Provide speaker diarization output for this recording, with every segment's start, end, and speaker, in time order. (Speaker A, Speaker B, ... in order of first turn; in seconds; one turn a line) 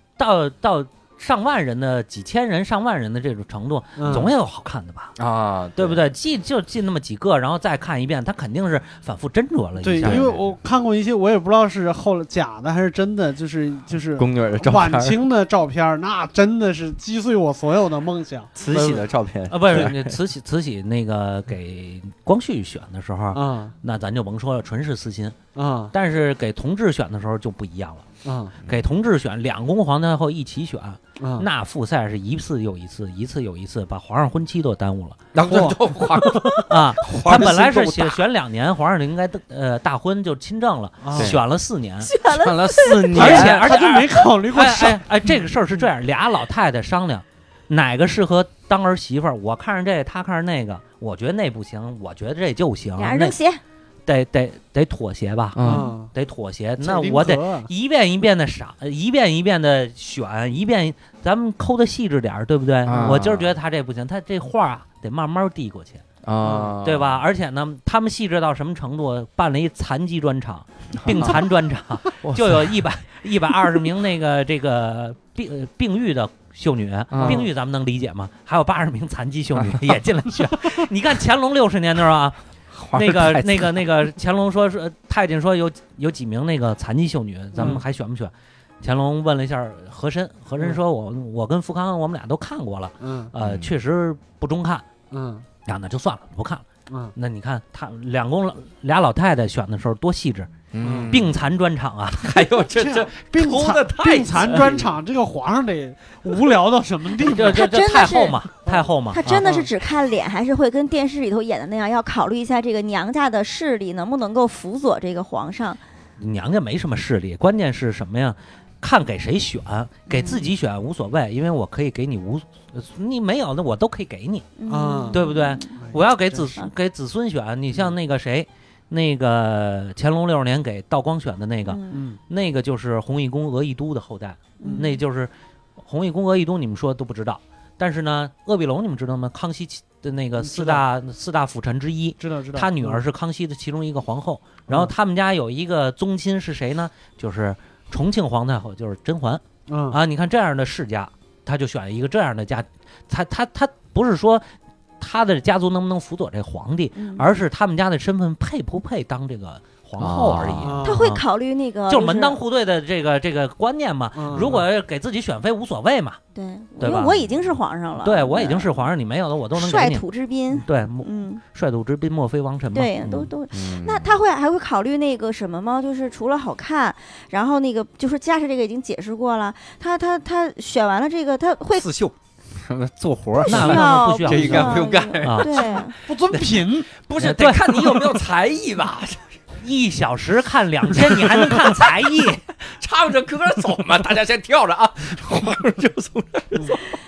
Speaker A: 0.2-5.1
Speaker B: 4.0-4.3
Speaker C: 5.2-6.0
Speaker A: 5.8-10.3
Speaker B: 9.8-19.0
Speaker C: 10.0-10.5
Speaker C: 14.2-15.2
Speaker C: 18.6-20.1
Speaker A: 19.5-25.4
Speaker B: 23.3-23.7
Speaker B: 25.5-25.9
Speaker A: 25.9-28.1
Speaker B: 28.2-28.6
Speaker A: 28.6-35.2
Speaker B: 31.2-31.5
Speaker C: 35.3-38.2
Speaker B: 35.4-36.7
Speaker A: 36.7-42.1
Speaker B: 41.0-41.4
Speaker C: 41.1-41.4
Speaker D: 42.0-43.3
Speaker C: 42.3-43.7
Speaker B: 43.1-45.4
Speaker A: 43.1-53.3
Speaker D: 53.0-53.6
Speaker A: 54.0-55.6
Speaker C: 55.5-55.9
Speaker B: 55.6-56.1
Speaker D: 55.7-56.0
Speaker A: 56.1-66.0
Speaker B: 56.8-57.7
Speaker C: 62.8-63.5
Speaker C: 66.2-67.2
Speaker B: 66.4-66.7
Speaker A: 66.8-82.4
Speaker C: 71.0-71.4
Speaker C: 72.2-72.8
Speaker C: 77.1-77.5
Speaker B: 77.2-77.4
Speaker C: 79.5-79.9
Speaker C: 82.7-83.8
Speaker A: 82.9-94.8
Speaker B: 87.5-87.8
Speaker B: 93.0-93.3
Speaker C: 93.4-93.7
Speaker B: 95.1-95.5
Speaker A: 95.6-100.5
Speaker C: 100.7-101.4
Speaker B: 100.8-101.1
Speaker A: 101.1-102.3
Speaker C: 102.1-104.9
Speaker B: 102.6-107.6
Speaker A: 104.4-104.7
Speaker A: 107.2-109.5
Speaker D: 107.5-108.4
Speaker B: 108.7-109.7
Speaker D: 109.1-115.8
Speaker A: 116.2-124.5
Speaker D: 120.1-120.5
Speaker D: 124.6-125.8
Speaker B: 124.7-125.2
Speaker A: 125.1-154.4
Speaker B: 125.7-126.5
Speaker D: 131.6-132.0
Speaker B: 131.9-132.2
Speaker D: 134.6-135.0
Speaker B: 134.6-134.9
Speaker B: 140.4-140.8
Speaker B: 142.2-143.0
Speaker B: 144.7-144.9
Speaker B: 149.7-150.0
Speaker A: 155.0-161.2
Speaker D: 156.9-157.3
Speaker C: 160.0-160.8
Speaker B: 160.6-161.0
Speaker D: 160.8-162.4
Speaker A: 161.9-166.2
Speaker B: 164.1-164.6
Speaker D: 166.3-168.9
Speaker A: 166.8-167.2
Speaker A: 168.0-173.3
Speaker D: 169.5-171.4
Speaker D: 172.7-181.9
Speaker C: 173.5-174.2
Speaker C: 181.8-185.7
Speaker D: 183.4-185.9
Speaker A: 183.4-186.6
Speaker B: 186.0-186.9
Speaker C: 187.0-189.4
Speaker A: 187.2-188.1
Speaker A: 189.6-192.4
Speaker C: 190.9-191.9
Speaker C: 192.6-197.0